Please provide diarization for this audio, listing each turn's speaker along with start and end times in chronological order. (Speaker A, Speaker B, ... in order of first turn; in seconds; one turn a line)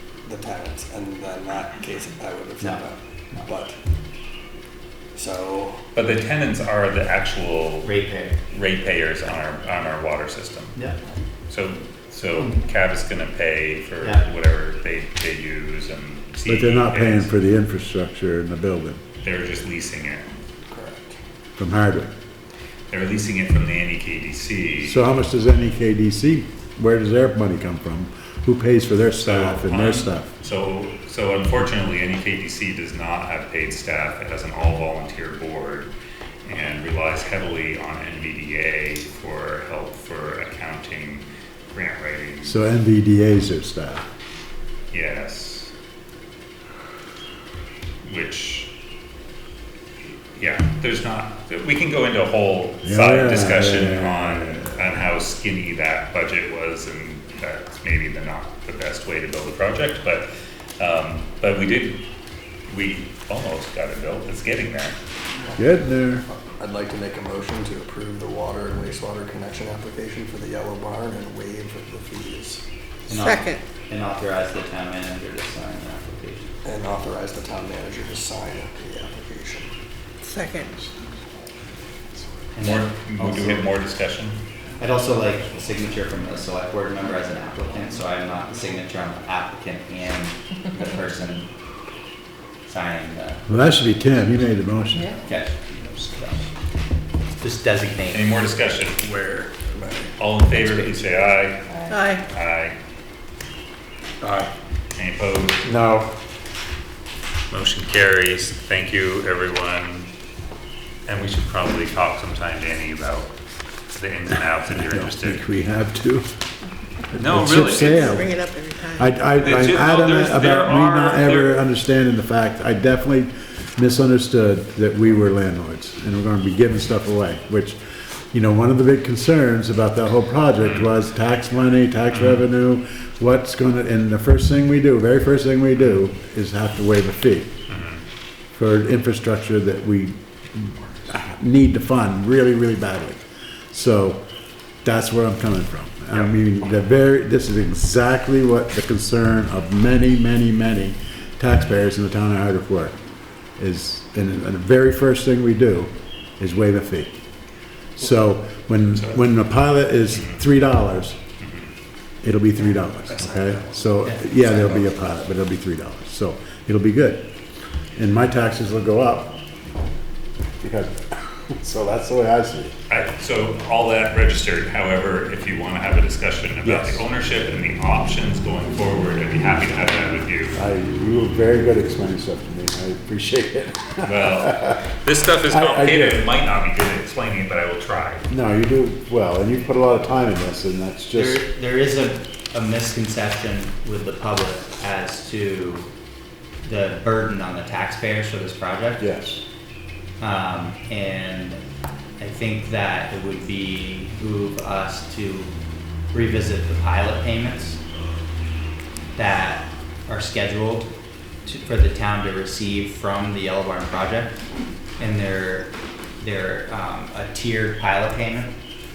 Speaker A: 0.2-3.8
Speaker A: 5.1-5.8
Speaker B: 5.9-7.9
Speaker C: 7.8-8.4
Speaker B: 8.5-10.8
Speaker B: 11.5-17.3
Speaker C: 14.0-14.2
Speaker D: 16.4-19.0
Speaker B: 19.2-20.2
Speaker A: 20.7-21.2
Speaker D: 21.6-22.1
Speaker B: 22.9-25.0
Speaker D: 24.8-30.3
Speaker B: 29.2-35.9
Speaker B: 36.4-42.6
Speaker D: 42.4-44.1
Speaker B: 44.9-45.7
Speaker B: 48.0-48.7
Speaker B: 50.3-60.3
Speaker D: 52.8-54.8
Speaker B: 60.8-62.0
Speaker B: 62.7-65.0
Speaker A: 65.3-72.6
Speaker D: 65.6-66.2
Speaker C: 73.1-76.5
Speaker E: 73.2-73.6
Speaker A: 76.6-79.7
Speaker E: 80.2-80.7
Speaker C: 82.5-83.7
Speaker B: 82.6-84.4
Speaker C: 84.8-91.5
Speaker C: 92.7-93.4
Speaker D: 93.5-95.2
Speaker C: 95.1-96.4
Speaker C: 97.4-98.3
Speaker B: 98.1-99.0
Speaker A: 99.0-100.2
Speaker B: 100.2-102.8
Speaker E: 101.9-102.2
Speaker A: 104.2-104.5
Speaker B: 104.9-105.7
Speaker D: 105.6-106.1
Speaker B: 107.5-110.1
Speaker B: 111.0-113.3
Speaker B: 113.9-115.4
Speaker D: 114.8-116.2
Speaker B: 117.1-118.2
Speaker D: 117.1-127.8
Speaker E: 117.8-119.1
Speaker B: 119.4-121.6
Speaker D: 128.3-137.6
Speaker B: 130.6-130.9
Speaker B: 132.1-132.4
Speaker B: 137.7-138.0
Speaker D: 138.5-144.2
Speaker D: 144.8-152.9
Speaker D: 153.6-157.2
Speaker D: 158.0-161.2
Speaker B: 160.1-160.4
Speaker B: 161.4-161.7
Speaker D: 162.2-167.3
Speaker A: 163.1-163.8
Speaker A: 164.4-164.9
Speaker D: 167.9-169.4
Speaker D: 170.6-172.7
Speaker B: 172.9-180.6
Speaker D: 176.6-177.0
Speaker D: 180.5-184.8
Speaker B: 184.0-188.2
Speaker D: 185.5-186.2
Speaker D: 188.3-191.4
Speaker C: 191.1-195.9
Speaker C: 196.6-199.0
Speaker D: 199.0-199.4
Speaker C: 200.2-201.6
Speaker C: 202.2-205.5
Speaker C: 206.1-207.8
Speaker C: 209.1-210.9
Speaker C: 211.4-214.3
Speaker C: 215.0-218.6